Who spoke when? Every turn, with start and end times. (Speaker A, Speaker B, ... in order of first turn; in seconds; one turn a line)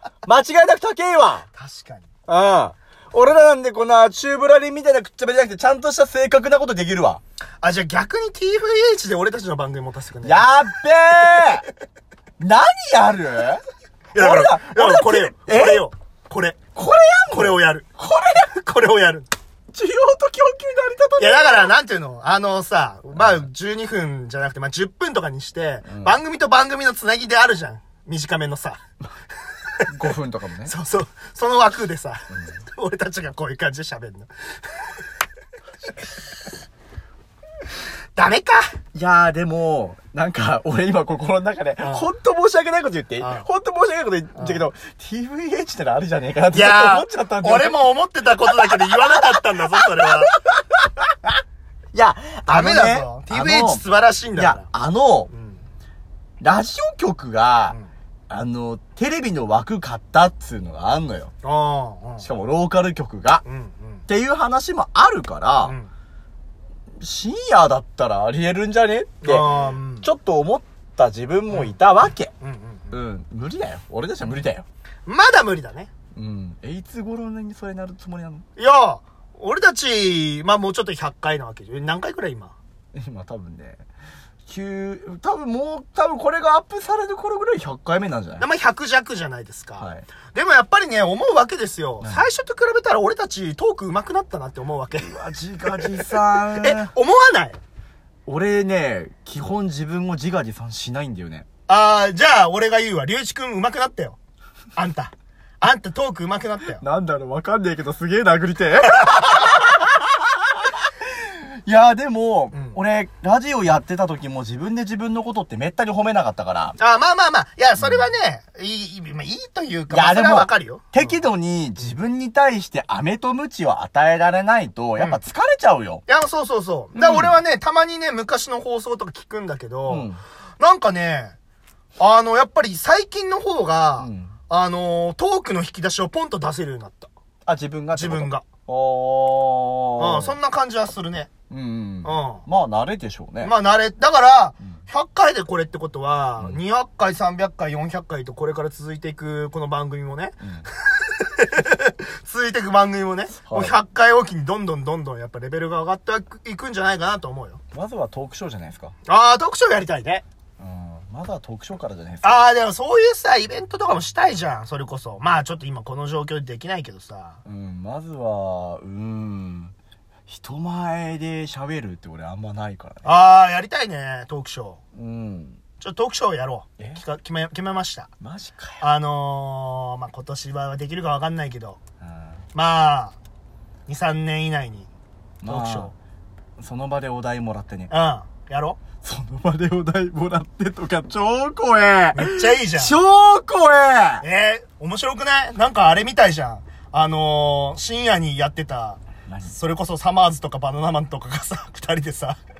Speaker A: 0.2-1.5
Speaker B: 1.5-2.1
Speaker A: 2.3-7.2
Speaker B: 7.6-10.5
Speaker A: 10.2-11.7
Speaker A: 12.4-13.6
Speaker B: 14.2-16.6
Speaker A: 14.2-15.8
Speaker A: 16.8-18.5
Speaker B: 17.3-19.3
Speaker A: 19.7-21.7
Speaker B: 21.2-28.8
Speaker A: 23.1-23.4
Speaker A: 25.9-26.2
Speaker A: 29.9-30.7
Speaker B: 30.6-34.9
Speaker B: 38.2-38.8
Speaker A: 38.9-47.8
Speaker B: 41.8-42.1
Speaker B: 43.2-43.5
Speaker B: 44.4-44.7
Speaker B: 46.5-50.3
Speaker A: 48.5-51.4
Speaker A: 51.9-53.8
Speaker B: 52.5-54.7
Speaker A: 54.4-55.3
Speaker B: 55.3-55.6
Speaker A: 56.4-57.8
Speaker A: 58.3-61.3
Speaker B: 61.4-62.3
Speaker A: 62.2-63.4
Speaker B: 63.4-64.0
Speaker A: 64.1-65.8
Speaker B: 65.6-65.9
Speaker A: 67.0-72.3
Speaker B: 69.2-70.1
Speaker B: 72.4-73.0
Speaker A: 72.9-74.7
Speaker B: 75.1-75.9
Speaker A: 76.2-78.4
Speaker B: 78.6-82.5
Speaker A: 82.9-83.8
Speaker A: 84.4-88.4
Speaker B: 88.4-97.6
Speaker A: 89.8-90.1
Speaker A: 95.0-96.9
Speaker A: 98.3-101.5
Speaker B: 101.7-104.2
Speaker B: 104.8-106.8
Speaker A: 106.8-116.8
Speaker B: 108.9-109.6
Speaker B: 112.5-112.8
Speaker B: 116.8-121.2
Speaker A: 117.8-118.1
Speaker A: 119.9-126.0
Speaker B: 126.1-130.1
Speaker A: 126.9-127.4
Speaker A: 129.9-130.2
Speaker B: 130.6-131.4
Speaker B: 132.0-137.1
Speaker A: 134.0-134.3
Speaker A: 137.5-140.4
Speaker B: 137.9-138.4
Speaker B: 140.0-141.3
Speaker A: 141.5-143.5
Speaker B: 142.0-142.4
Speaker B: 143.4-157.6
Speaker A: 150.4-150.7
Speaker A: 153.4-153.8
Speaker A: 157.7-158.9
Speaker B: 159.1-160.2
Speaker A: 160.6-162.4
Speaker B: 162.2-167.4
Speaker A: 167.4-169.7
Speaker A: 170.3-173.1
Speaker B: 173.0-174.8
Speaker A: 174.9-175.6
Speaker B: 175.8-178.1
Speaker A: 178.2-178.9
Speaker B: 178.8-181.8
Speaker A: 182.0-182.4
Speaker B: 182.5-183.2
Speaker B: 183.9-184.9
Speaker A: 185.4-185.9
Speaker B: 185.5-185.9
Speaker A: 186.6-187.9
Speaker B: 187.9-188.8
Speaker A: 189.0-194.2
Speaker B: 192.2-193.0
Speaker B: 194.2-202.4
Speaker A: 199.3-199.6